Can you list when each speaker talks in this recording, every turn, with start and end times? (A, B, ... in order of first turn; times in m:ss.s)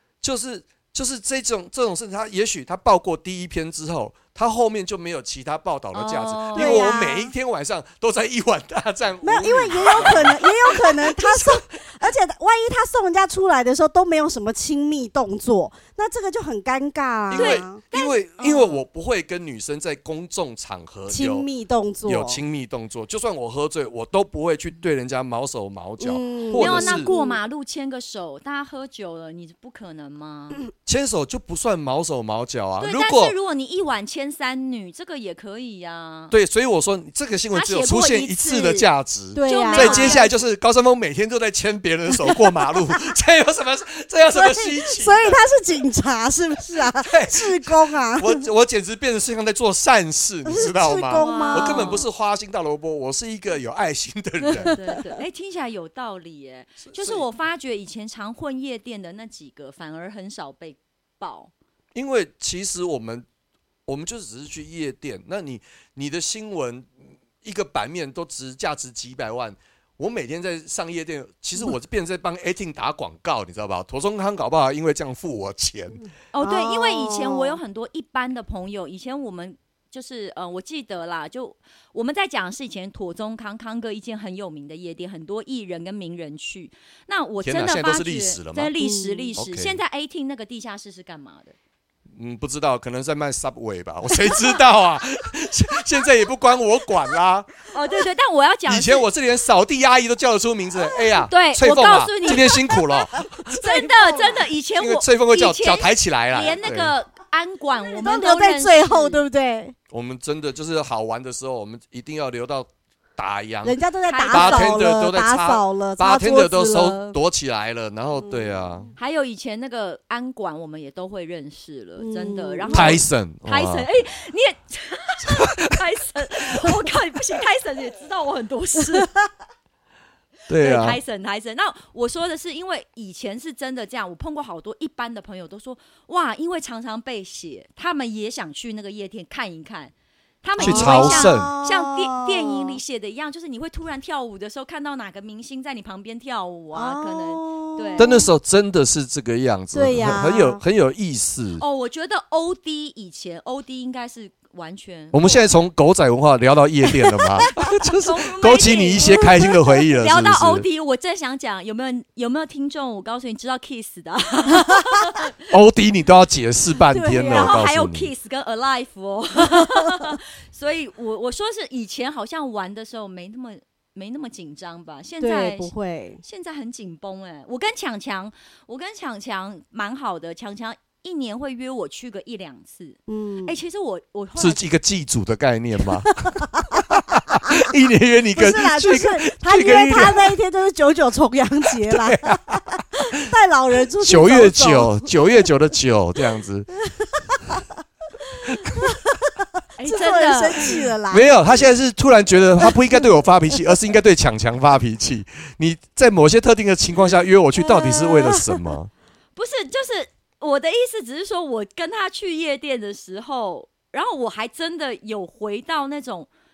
0:00.2-0:11.6 A
0:05.9-0:06.9 B
0:06.5-0:07.3 C
0:09.2-0:17.8 C
0:17.3-0:21.5 A
0:17.3-0:18.8 B
0:21.1-0:22.4 C
0:22.0-0:27.1 A
0:26.0-0:27.4 C
0:26.5-0:30.6 B
0:30.8-0:33.3 A
0:32.8-0:36.3 B
0:36.3-0:45.4 A
0:37.5-0:38.9 B
0:39.3-0:40.3 C
0:39.4-0:40.3 B
0:42.2-0:42.5 C
0:44.3-0:48.4 C
0:46.9-0:54.8 A
0:50.4-0:52.0 C
0:51.2-0:52.0 B
0:54.4-0:55.0 C
0:54.6-1:01.5 B
0:56.8-0:57.2 A
1:01.9-1:03.2 A
1:03.9-1:16.0 A
1:16.3-1:31.6 B
1:16.4-1:17.6 C
1:27.4-1:28.7 A
1:28.8-1:29.3 C
1:29.4-1:29.8 A
1:32.2-1:37.6 A
1:37.7-1:39.0 B
1:38.6-1:43.6 A
1:41.3-1:42.6 B
1:42.3-1:44.4 C
1:43.5-1:49.2 B
1:44.8-1:46.9 A
1:47.8-1:49.7 C
1:49.9-1:53.8 A
1:53.6-1:57.2 C
1:54.1-1:54.7 B
1:54.3-1:58.9 A
1:58.2-1:58.7 C
1:59.0-2:09.1 B
2:02.0-2:03.0 C
2:02.7-2:03.9 A
2:05.3-2:05.8 A
2:10.5-2:11.0 A
2:10.5-2:28.2 B
2:20.6-2:21.5 A
2:20.6-2:22.8 C
2:26.7-2:28.3 C
2:28.0-2:31.6 A
2:29.7-2:30.6 C
2:31.6-2:35.4 B
2:35.1-2:40.6 A
2:37.6-2:39.4 B
2:39.0-2:39.6 C
2:40.0-2:45.3 B
2:45.5-2:48.1 A
2:46.9-2:47.6 C
2:47.1-3:04.6 B
2:49.6-2:50.1 C
2:55.2-2:56.2 C
3:03.1-3:03.6 C
3:04.4-3:10.3 A
3:06.2-3:07.5 C
3:08.3-3:15.4 C
3:11.9-3:13.1 A
3:14.0-3:16.8 A
3:16.8-3:21.7 C
3:18.5-3:18.9 A
3:19.8-3:20.8 B
3:21.1-3:28.9 A
3:22.6-3:23.0 C
3:27.6-3:28.6 C
3:29.4-3:36.3 B